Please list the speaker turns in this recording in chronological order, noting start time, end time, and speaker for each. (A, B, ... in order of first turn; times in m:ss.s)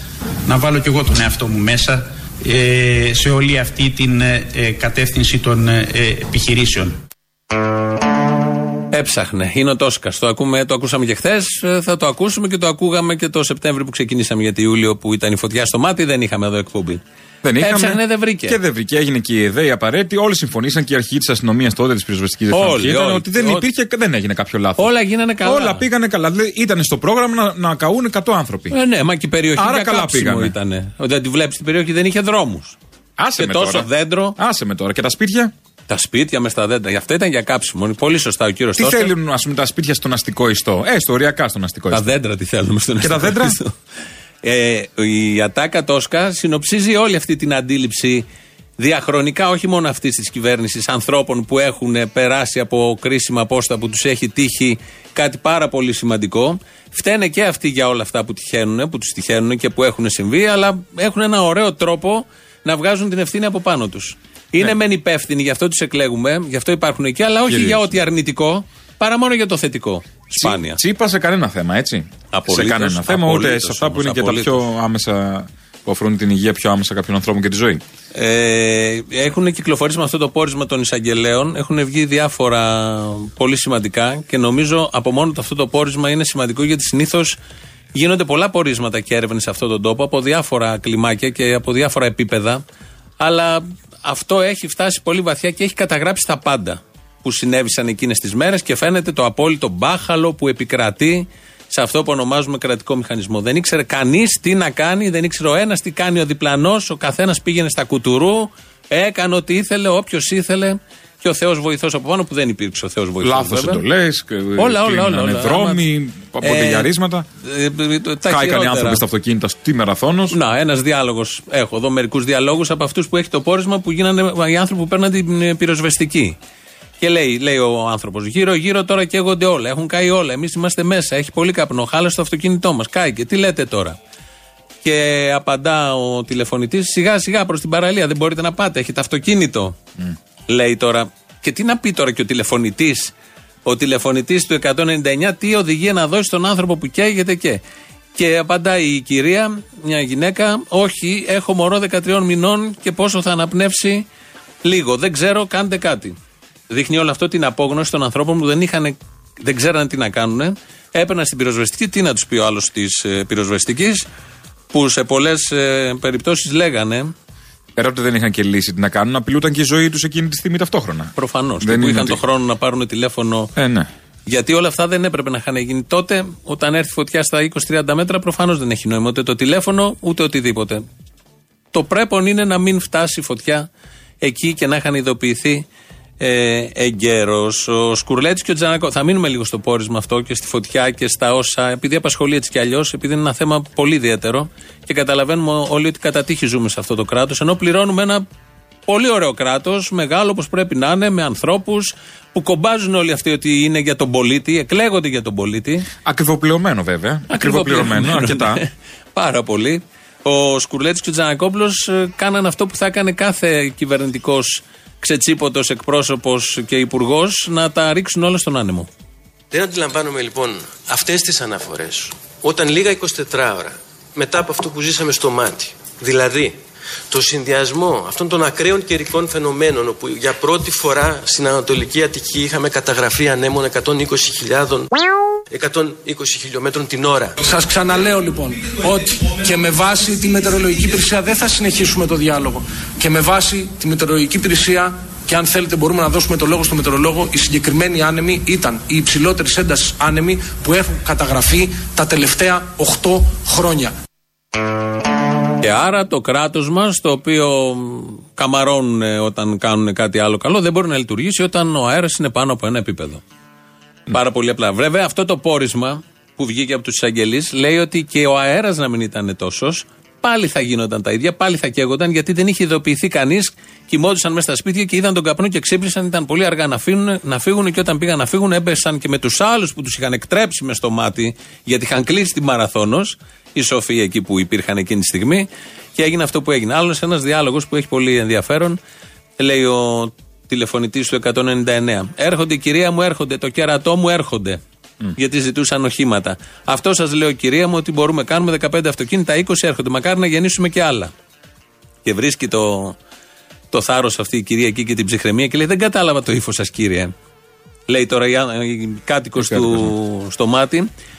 0:00.4-0:07.0 A
0:08.9-0:17.0 B
0:17.4-0:24.9 C
0:17.6-0:18.6 B
0:22.5-0:23.7 B
0:24.8-0:25.9 B
0:25.4-0:28.7 C
0:28.7-0:32.8 B
0:29.6-0:30.5 C
0:33.2-0:35.5 C
0:33.4-0:34.4 B
0:35.9-0:39.1 B
0:38.8-0:42.0 C
0:41.9-0:43.7 B
0:43.0-0:43.6 C
0:44.4-0:48.2 B
0:48.8-1:10.8 B
1:07.5-1:07.9 C
1:10.4-1:17.8 C
1:12.3-1:14.6 B
1:18.1-1:27.4 B
1:27.9-1:32.6 B
1:33.2-1:53.8 B
1:53.2-1:57.2 C
1:54.6-1:55.8 B
1:56.4-1:56.9 B
1:57.4-1:59.0 B
1:58.2-2:00.4 C
2:00.3-2:06.4 B
2:07.0-2:14.0 B
2:14.8-2:19.8 B
2:20.5-2:23.1 B
2:23.6-2:27.6 B
2:28.2-2:34.0 B
2:34.6-2:36.2 B
2:36.7-2:44.0 B
2:44.7-2:47.1 B
2:47.8-2:52.2 C
2:51.2-2:53.5 B
2:53.6-2:53.9 C
2:54.3-3:00.8 B
3:01.7-3:03.7 B
3:04.2-3:05.6 B
3:06.2-3:18.2 B
3:18.9-3:25.9 B
3:26.0-3:28.6 C
3:27.3-3:38.9 B
3:39.5-3:46.6 D
3:47.1-3:55.0 D
3:55.5-3:57.3 D
3:57.4-4:13.9 E
4:15.6-4:23.2 B
4:24.1-4:48.8 B
4:49.4-4:54.6 B
4:55.2-5:01.1 B
5:02.0-5:03.0 B
5:03.7-5:07.1 B
5:07.9-5:10.9 B
5:09.4-5:09.9 C